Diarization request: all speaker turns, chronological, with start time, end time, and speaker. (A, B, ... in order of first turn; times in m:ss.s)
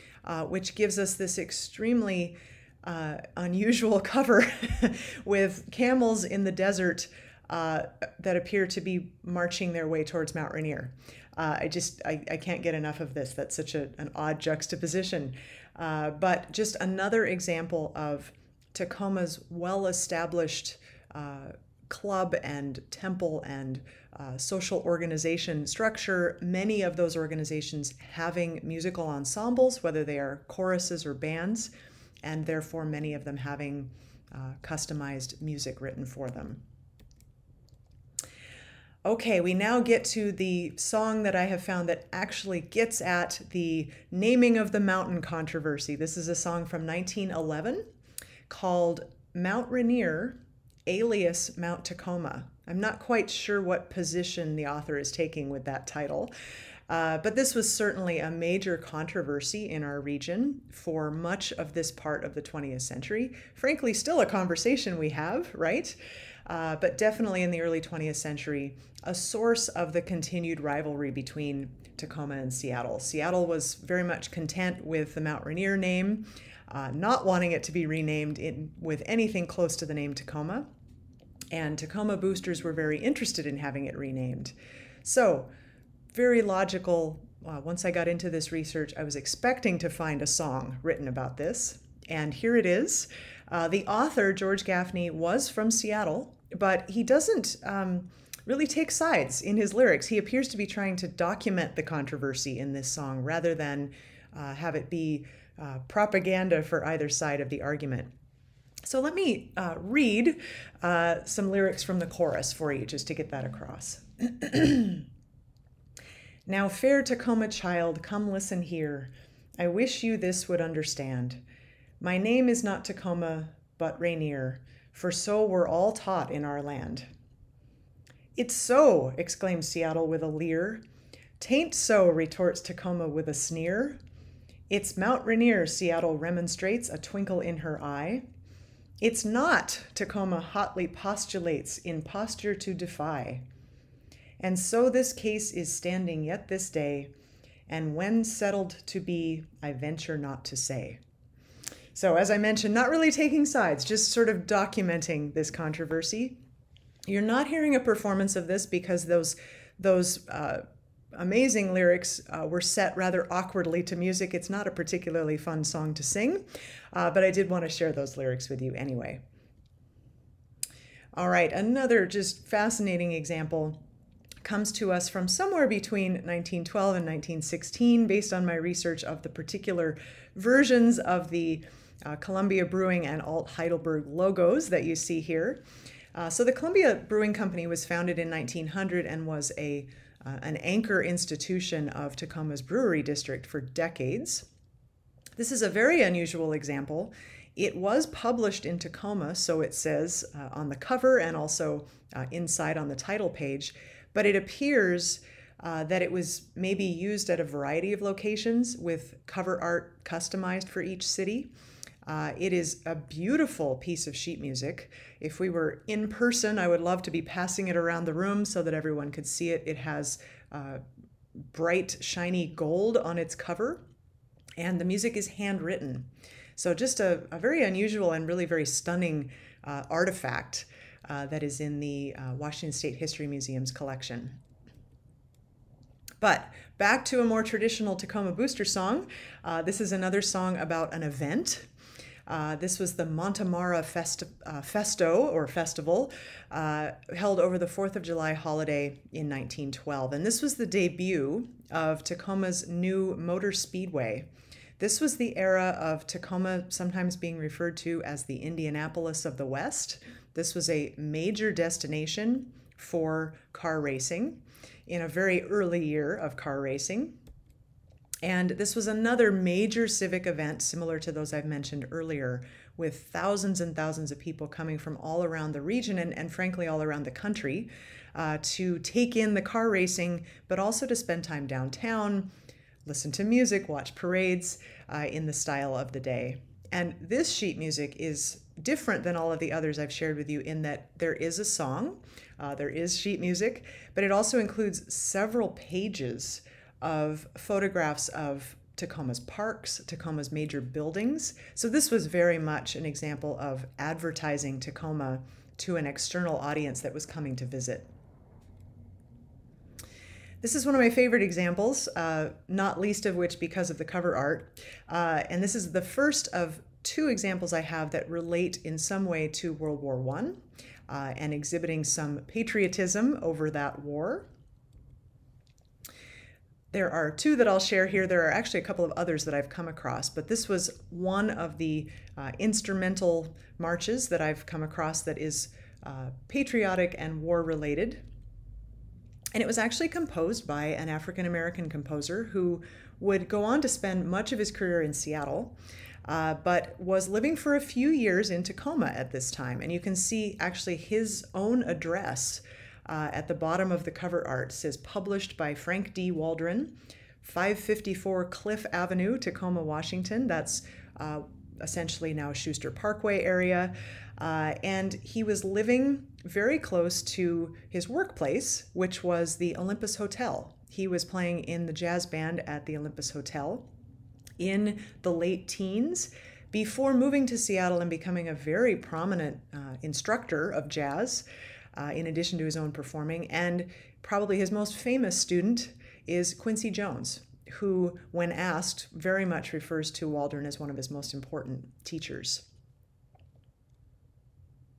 0:00.2-0:31.7 A
0:32.2-0:36.6 A
0:39.0-0:47.9 A
0:48.5-0:56.3 A
0:56.9-1:20.7 A
1:21.5-1:24.5 A
1:25.0-1:25.5 A
1:26.1-1:48.1 A
1:48.8-1:55.1 A
1:56.5-2:01.4 A
2:02.0-2:07.1 A
2:08.4-2:10.8 A
2:11.4-2:14.0 A
2:14.7-2:18.3 A
2:19.0-2:23.4 A
2:24.4-2:27.1 A
2:27.7-2:31.0 A
2:32.0-2:36.4 A
2:37.1-2:49.2 A
2:51.2-2:53.8 A
2:54.4-3:05.6 A
3:06.1-3:14.5 A
3:15.4-3:31.5 A
3:32.0-3:40.8 A
3:41.5-3:43.8 A
3:44.6-3:54.4 A
3:56.2-4:01.7 A
4:02.3-4:14.3 A
4:14.8-4:27.2 A
4:28.2-4:42.3 A
4:42.8-5:07.9 A
5:10.4-5:24.3 A
5:26.7-5:38.0 A
5:39.3-6:13.7 A
6:14.4-6:32.4 A